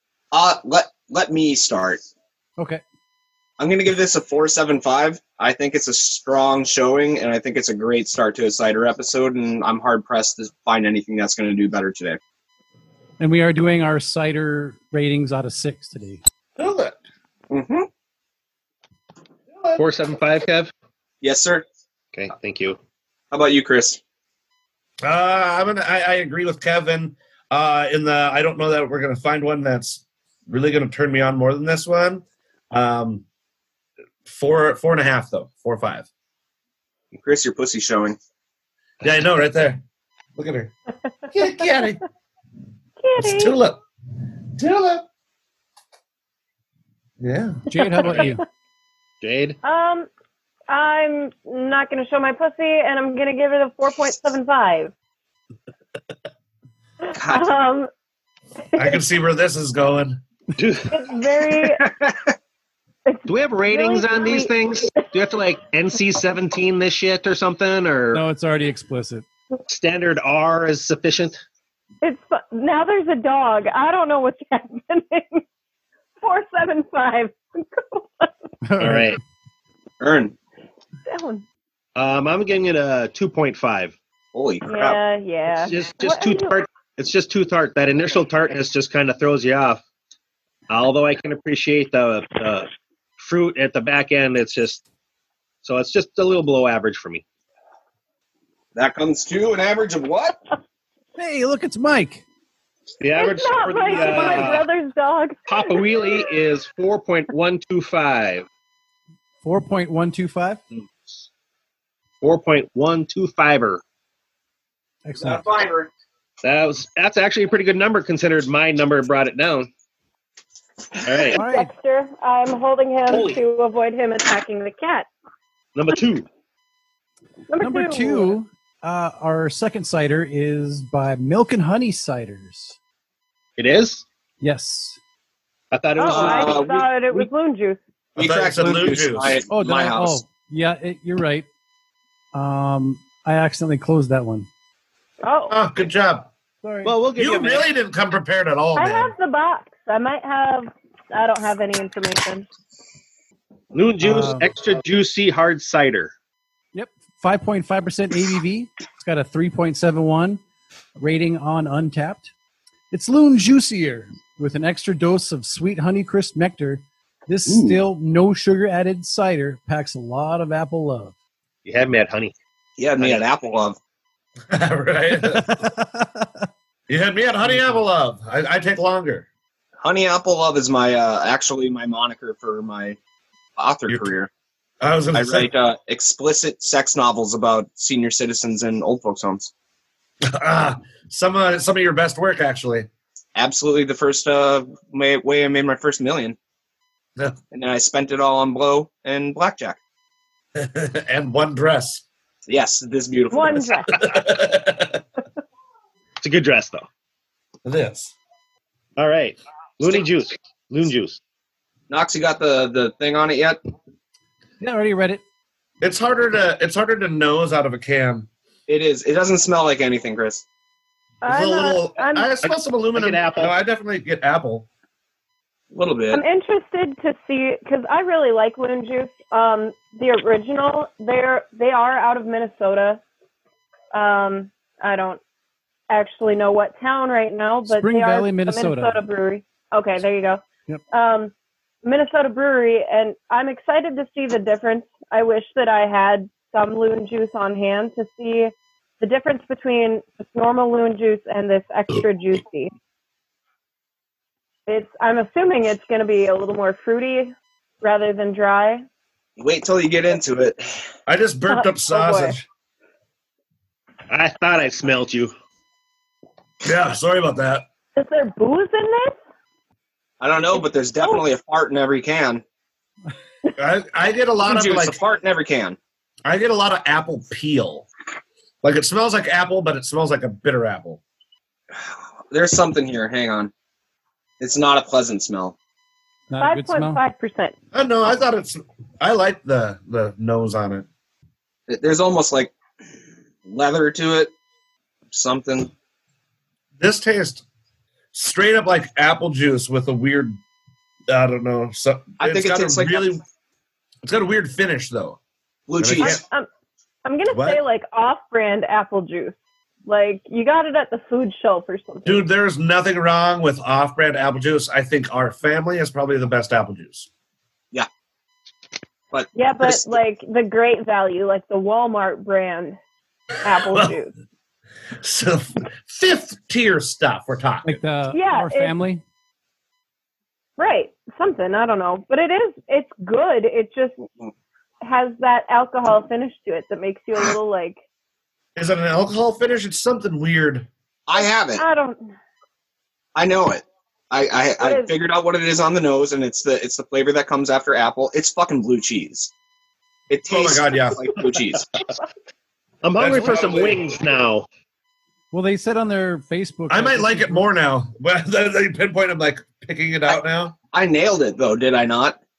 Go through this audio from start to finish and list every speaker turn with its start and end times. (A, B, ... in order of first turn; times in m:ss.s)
0:00.3-0:02.0 A
0:03.6-0:12.2 A
0:13.2-0:16.2 B
0:16.6-0:17.0 C
0:17.5-0:17.9 A
0:19.5-0:19.8 C
0:19.8-0:20.7 D
0:21.2-0:21.6 A
0:22.1-0:22.8 D
0:23.3-0:24.0 A
0:25.0-0:33.2 C
0:34.3-0:36.1 C
0:37.2-0:38.2 A
0:39.0-0:39.8 C
0:40.4-0:40.7 C
0:41.3-0:42.0 C
0:43.0-0:43.6 E
0:43.2-0:43.8 C
0:44.6-0:45.0 C
0:47.2-0:47.6 C
0:47.7-0:48.4 B
0:49.2-0:49.6 D
0:49.6-0:50.1 E
0:50.7-0:54.9 E
0:57.0-0:57.9 E
0:57.2-0:57.5 A
0:58.8-1:00.2 C
1:00.6-1:00.9 D
1:00.9-1:01.9 E
1:01.8-1:02.2 A
1:03.1-1:05.1 E
1:03.3-1:08.2 D
1:08.1-1:09.2 B
1:09.7-1:11.4 D
1:12.0-1:15.4 E
1:16.2-1:18.3 E
1:18.6-1:19.2 B
1:18.8-1:19.2 D
1:20.0-1:20.4 A
1:21.1-1:21.4 E
1:22.0-1:24.0 D
1:24.3-1:25.0 A
1:24.7-1:26.6 E
1:25.6-1:29.8 D
1:30.7-1:34.8 D
1:35.6-1:37.2 D
1:38.8-1:40.4 A
1:41.2-1:42.2 B
1:43.0-1:44.7 D
1:43.2-1:46.4 E
1:45.5-1:48.5 D
1:49.4-1:50.6 B
1:52.2-1:53.8 D
1:55.0-1:55.4 B
1:55.2-1:55.9 A
1:56.4-1:59.7 D
2:01.0-2:01.4 D
2:01.3-2:01.7 B
2:01.4-2:05.1 E
2:03.1-2:03.4 D
2:05.8-2:06.3 D
2:07.5-2:08.4 E
2:07.6-2:12.8 B
2:13.6-2:14.0 D
2:14.4-2:15.0 B
2:15.7-2:17.3 D
2:16.0-2:17.8 E
2:16.1-2:16.8 A
2:18.2-2:20.2 A
2:18.2-2:19.4 C
2:19.5-2:21.5 B
2:22.3-2:24.5 B
2:25.2-2:25.6 E
2:25.5-2:26.3 C
2:26.6-2:27.0 B
2:26.8-2:27.7 D
2:27.2-2:29.1 C
2:28.8-2:32.5 E
2:33.7-2:36.1 D
2:34.0-2:34.5 B
2:36.7-2:40.4 B
2:41.0-2:42.3 B
2:42.9-2:51.1 B
2:47.5-2:47.8 D
2:51.6-2:52.3 D
2:52.8-2:53.8 A
2:53.0-2:53.2 D
2:54.5-2:55.6 C
2:55.2-2:56.3 B
2:56.9-2:59.3 C
2:57.5-2:57.8 B
2:59.8-3:03.0 A
3:03.6-3:04.3 A
3:04.8-3:05.5 C
3:05.1-3:09.5 A
3:10.3-3:12.9 C
3:13.4-3:16.4 A
3:17.5-3:19.8 A
3:20.6-3:22.0 C
3:22.5-3:23.9 A
3:23.3-3:24.0 E
3:23.9-3:25.0 C
3:26.2-3:26.9 D
3:27.6-3:28.1 C
3:29.0-3:31.2 D
3:31.9-3:33.6 A
3:34.6-3:35.2 B
3:35.8-3:38.3 C
3:38.7-3:40.4 A
3:41.2-3:42.3 E
3:41.2-3:44.7 C
3:42.5-3:43.5 D
3:45.7-3:46.2 A
3:46.1-3:53.0 E
3:53.9-3:55.2 E
3:55.9-4:01.3 E
3:57.7-3:59.0 B
4:01.8-4:12.7 E
4:14.7-4:18.8 E
4:19.4-4:20.8 A
4:21.1-4:22.4 C
4:21.5-4:22.4 E
4:24.1-4:25.3 D
4:26.6-4:27.7 C
4:28.0-4:29.2 E
4:30.2-4:32.4 A
4:33.6-4:35.0 C
4:34.4-4:35.8 A
4:36.2-4:37.9 C
4:38.6-4:41.0 C
4:41.7-4:43.5 A
4:44.4-4:45.6 A
4:46.3-4:47.0 B
4:46.4-4:47.6 E
4:47.7-4:50.9 C
4:51.7-4:52.5 A
4:53.5-4:54.3 A
4:55.1-4:55.7 A
4:56.8-4:57.4 C
4:58.1-5:00.4 C
5:01.1-5:03.2 C
5:02.2-5:03.2 A
5:04.0-5:05.2 C
5:05.7-5:06.2 A
5:05.8-5:06.2 C
5:06.0-5:06.5 E
5:07.0-5:12.3 E
5:07.3-5:07.6 C
5:12.0-5:17.1 C
5:19.1-5:19.9 A
5:19.4-5:22.8 E
5:23.4-5:24.1 E
5:23.7-5:24.0 C
5:25.0-5:27.8 C
5:27.6-5:29.0 B
5:28.1-5:28.8 E
5:30.6-5:34.0 E
5:34.8-5:37.8 E
5:38.6-5:40.7 C
5:41.1-5:41.6 A
5:41.2-5:42.1 E
5:43.2-5:49.3 A
5:44.6-5:44.9 E
5:50.1-5:51.7 A
5:50.3-5:51.0 C
5:52.8-5:54.5 D
5:53.0-5:53.8 C
5:55.3-5:57.4 B
5:56.7-6:00.6 C
6:00.7-6:02.2 A